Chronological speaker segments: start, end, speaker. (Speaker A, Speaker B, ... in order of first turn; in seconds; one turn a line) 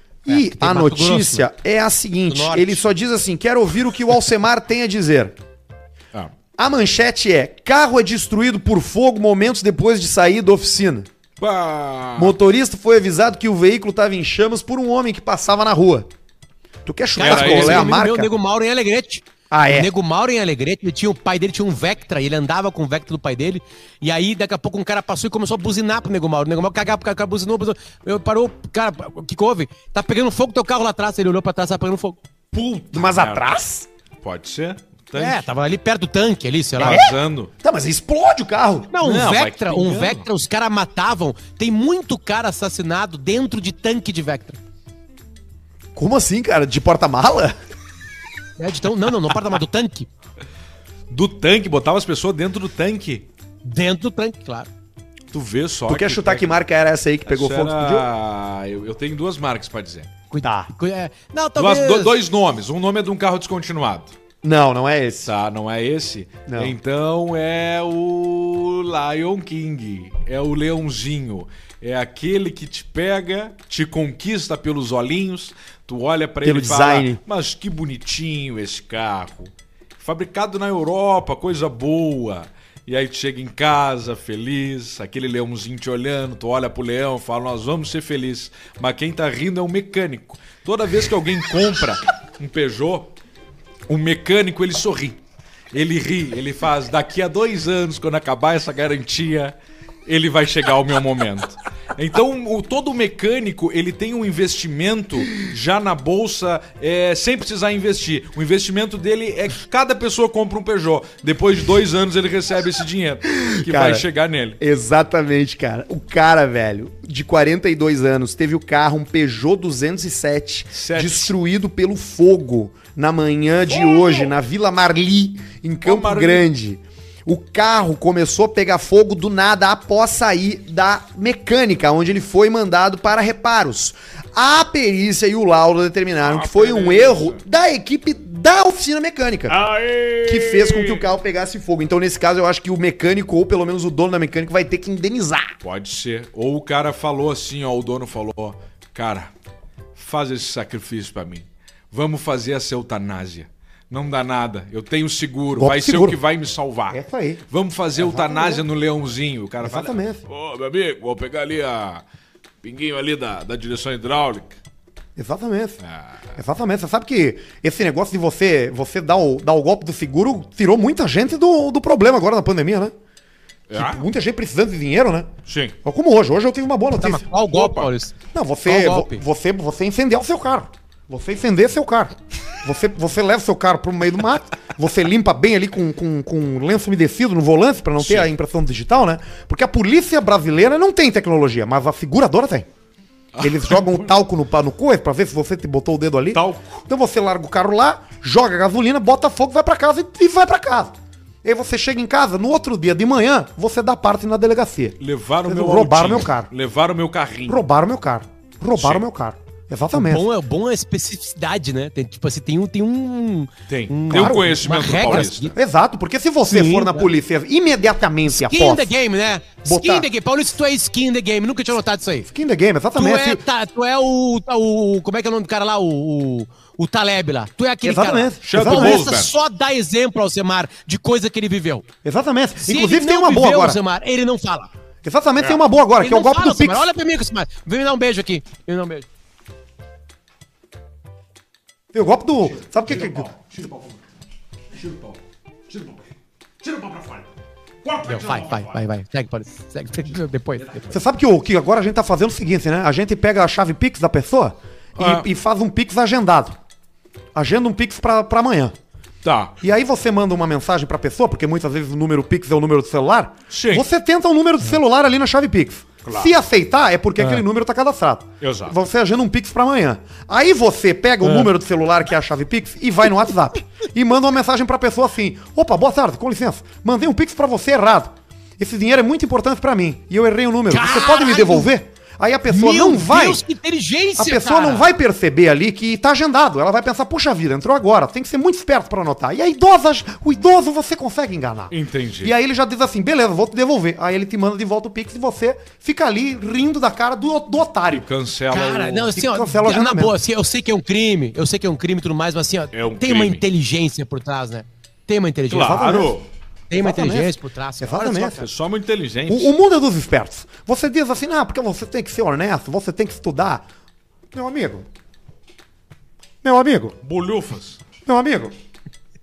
Speaker A: 0.2-5.3
Speaker B: 0.3-1.4
Speaker B: 2.3-2.8
Speaker A: 6.6-11.1
Speaker C: 11.4-12.3
Speaker A: 12.2-16.1
Speaker A: 16.8-18.3
Speaker B: 17.1-32.2
Speaker C: 17.2-17.9
Speaker A: 19.5-19.9
Speaker A: 32.5-33.9
Speaker C: 32.9-33.5
Speaker C: 34.2-35.5
Speaker B: 35.1-37.0
Speaker C: 36.8-37.5
Speaker A: 36.8-38.9
Speaker B: 38.9-44.6
Speaker C: 39.0-40.2
Speaker A: 46.0-47.5
Speaker B: 48.6-50.1
Speaker C: 51.1-53.3
Speaker B: 53.6-54.7
Speaker C: 55.3-56.6
Speaker A: 55.9-58.1
Speaker C: 57.3-60.1
Speaker B: 60.3-62.1
Speaker A: 60.4-60.7
Speaker C: 61.6-64.1
Speaker A: 64.4-65.3
Speaker C: 65.2-93.1
Speaker A: 66.5-66.7
Speaker A: 76.4-77.2
Speaker C: 93.9-95.2
Speaker C: 95.7-99.5
Speaker C: 100.0-114.6
Speaker A: 113.6-114.0
Speaker A: 114.6-139.6
Speaker C: 120.7-121.3
Speaker C: 125.8-126.5
Speaker C: 136.2-137.4
Speaker C: 139.5-141.1
Speaker A: 140.2-145.5
Speaker C: 145.6-149.3
Speaker C: 149.9-162.0
Speaker A: 155.6-156.2
Speaker A: 156.9-157.4
Speaker A: 158.0-158.6
Speaker A: 159.6-160.2
Speaker C: 162.6-164.6
Speaker A: 165.2-165.8
Speaker C: 165.8-166.3
Speaker A: 166.3-172.9
Speaker C: 173.7-174.1
Speaker A: 173.7-175.3
Speaker C: 175.4-175.8
Speaker A: 175.8-177.2
Speaker B: 176.9-178.1
Speaker C: 177.5-177.9
Speaker A: 178.3-192.7
Speaker B: 178.7-179.2
Speaker C: 188.0-188.3
Speaker C: 193.3-194.1
Speaker A: 193.4-200.9
Speaker C: 196.3-196.8
Speaker A: 201.4-206.5
Speaker C: 205.0-207.6
Speaker A: 207.5-210.2
Speaker C: 208.8-209.1
Speaker B: 209.9-215.6
Speaker C: 213.7-215.5
Speaker A: 214.1-218.9
Speaker B: 216.4-217.1
Speaker B: 218.3-222.3
Speaker A: 219.6-220.1
Speaker A: 222.3-223.4
Speaker B: 222.9-231.8
Speaker A: 227.8-229.1
Speaker C: 228.4-229.3
Speaker A: 232.0-233.8
Speaker B: 232.6-234.7
Speaker A: 235.0-236.9
Speaker B: 236.0-239.1
Speaker A: 241.9-243.3
Speaker C: 242.6-244.0
Speaker C: 244.7-246.1
Speaker C: 246.6-247.3
Speaker C: 247.8-248.8
Speaker B: 248.1-250.9
Speaker C: 250.6-250.9
Speaker A: 250.9-256.6
Speaker C: 254.9-255.3
Speaker A: 257.3-258.7
Speaker C: 259.2-259.5
Speaker A: 259.6-283.4
Speaker C: 263.5-263.9
Speaker C: 266.0-266.3
Speaker C: 267.2-267.4
Speaker C: 268.4-268.8
Speaker C: 271.2-271.5
Speaker B: 280.7-281.7
Speaker B: 282.5-284.9
Speaker A: 284.2-298.1
Speaker C: 291.7-292.3
Speaker C: 297.9-299.1
Speaker B: 298.5-306.0
Speaker A: 299.1-300.1
Speaker C: 302.7-303.4
Speaker C: 305.5-306.3
Speaker A: 305.6-306.1
Speaker B: 306.7-308.5
Speaker A: 306.7-308.5
Speaker C: 308.0-309.5
Speaker A: 309.3-313.6
Speaker A: 314.3-314.8
Speaker A: 316.4-317.0
Speaker C: 317.0-317.8
Speaker A: 318.0-318.5